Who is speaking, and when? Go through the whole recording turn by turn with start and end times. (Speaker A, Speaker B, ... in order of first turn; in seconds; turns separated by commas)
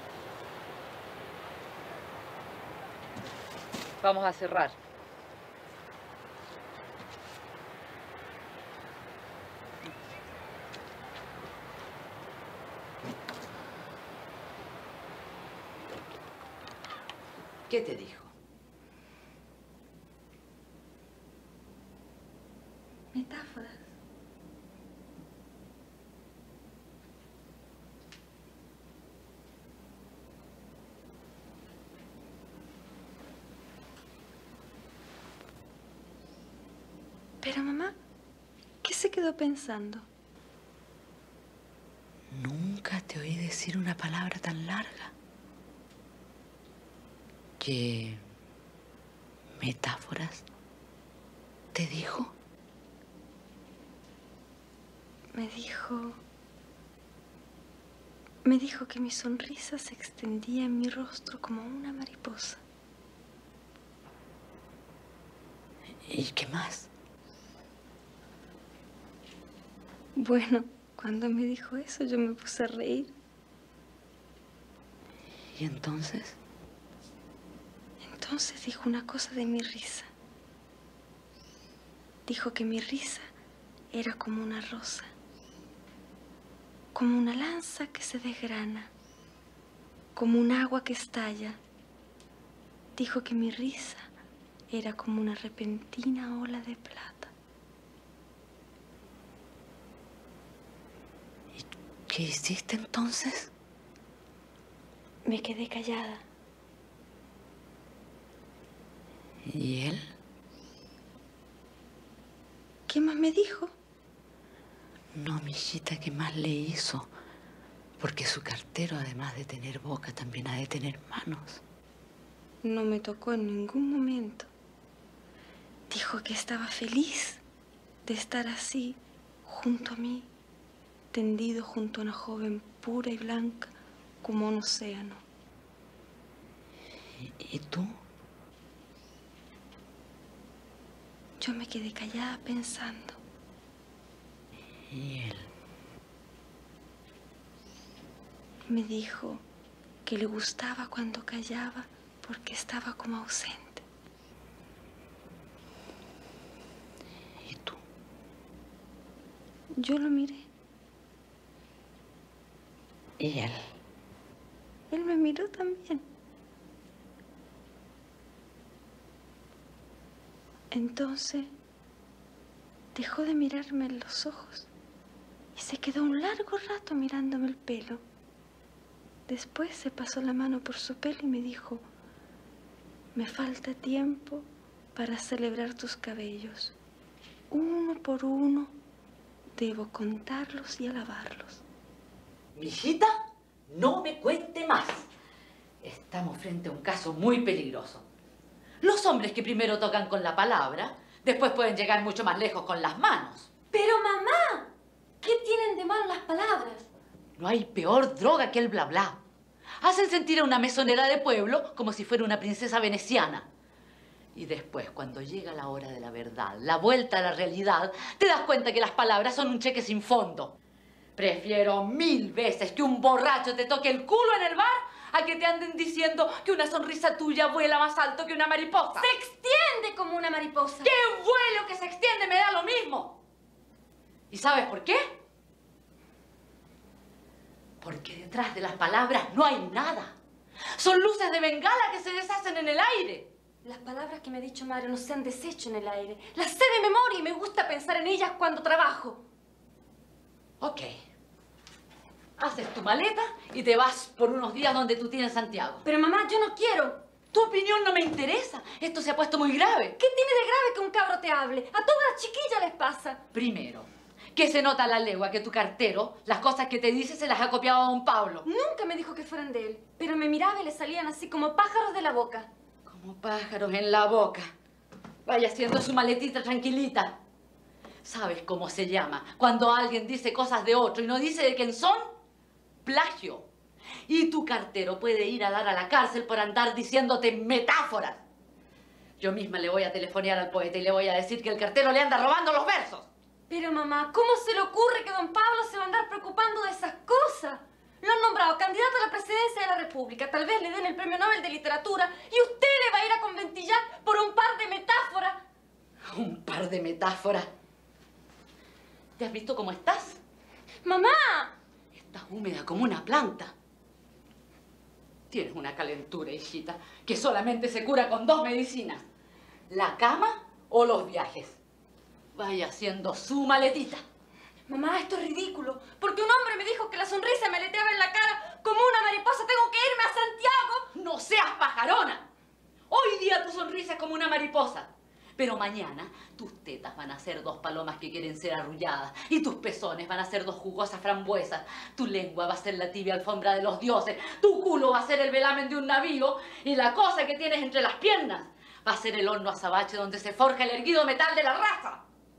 Speaker A: 4.0-4.8, Speaker A: 17.7-18.3, Speaker B: 23.1-23.9, Speaker B: 37.4-38.0, Speaker B: 38.8-40.0, Speaker A: 42.3-45.1, Speaker A: 47.6-48.2, Speaker A: 49.6-50.4, Speaker A: 51.7-52.3, Speaker B: 55.3-56.2, Speaker B: 58.4-62.6, Speaker A: 66.1-66.9, Speaker B: 70.2-73.1, Speaker A: 75.5-76.3, Speaker B: 78.0-80.1, Speaker B: 82.2-83.2, Speaker B: 83.9-85.1, Speaker B: 86.9-88.9, Speaker B: 90.1-91.6, Speaker B: 93.0-94.1, Speaker B: 94.7-97.3, Speaker A: 101.5-103.5, Speaker B: 105.2-106.2, Speaker A: 109.5-110.1, Speaker B: 112.9-113.7, Speaker A: 115.2-117.1, Speaker A: 118.0-121.6, Speaker B: 122.6-124.5, Speaker B: 125.9-127.4, Speaker B: 128.0-130.3, Speaker B: 131.1-135.2, Speaker A: 137.2-138.0, Speaker B: 141.4-143.2, Speaker A: 144.9-145.5, Speaker B: 148.7-149.4, Speaker B: 150.0-153.8, Speaker A: 157.4-157.8, Speaker B: 159.8-160.5, Speaker A: 163.2-163.6, Speaker B: 164.9-166.0, Speaker B: 170.7-171.5, Speaker B: 172.9-174.7, Speaker B: 175.5-178.0, Speaker B: 179.3-181.8, Speaker B: 183.1-186.8, Speaker B: 187.5-188.7, Speaker B: 189.6-191.6, Speaker A: 192.6-193.1, Speaker A: 193.7-195.1, Speaker A: 195.8-198.0, Speaker A: 198.8-203.5, Speaker C: 203.7-206.8, Speaker A: 207.4-209.2, Speaker A: 209.8-213.5, Speaker A: 214.3-220.5, Speaker A: 221.2-229.1, Speaker C: 229.0-230.9, Speaker A: 230.8-233.2, Speaker A: 234.3-235.1, Speaker A: 237.8-240.1, Speaker A: 240.8-243.3, Speaker C: 243.6-249.2, Speaker A: 250.6-250.9, Speaker A: 252.4-255.8, Speaker C: 255.8-257.0, Speaker A: 257.3-259.9, Speaker C: 260.0-263.2, Speaker A: 263.3-268.4, Speaker C: 268.4-272.5, Speaker A: 272.9-274.5, Speaker A: 275.2-277.2, Speaker A: 278.0-282.0, Speaker A: 282.9-283.5, Speaker A: 284.1-288.2, Speaker A: 289.2-293.1, Speaker C: 293.5-305.4, Speaker A: 306.1-307.5, Speaker A: 309.2-310.2, Speaker C: 310.8-311.5, Speaker A: 311.9-313.5, Speaker A: 315.3-319.0, Speaker A: 319.7-321.6, Speaker A: 322.4-324.0, Speaker C: 324.7-330.9, Speaker A: 330.9-332.2, Speaker A: 332.9-352.0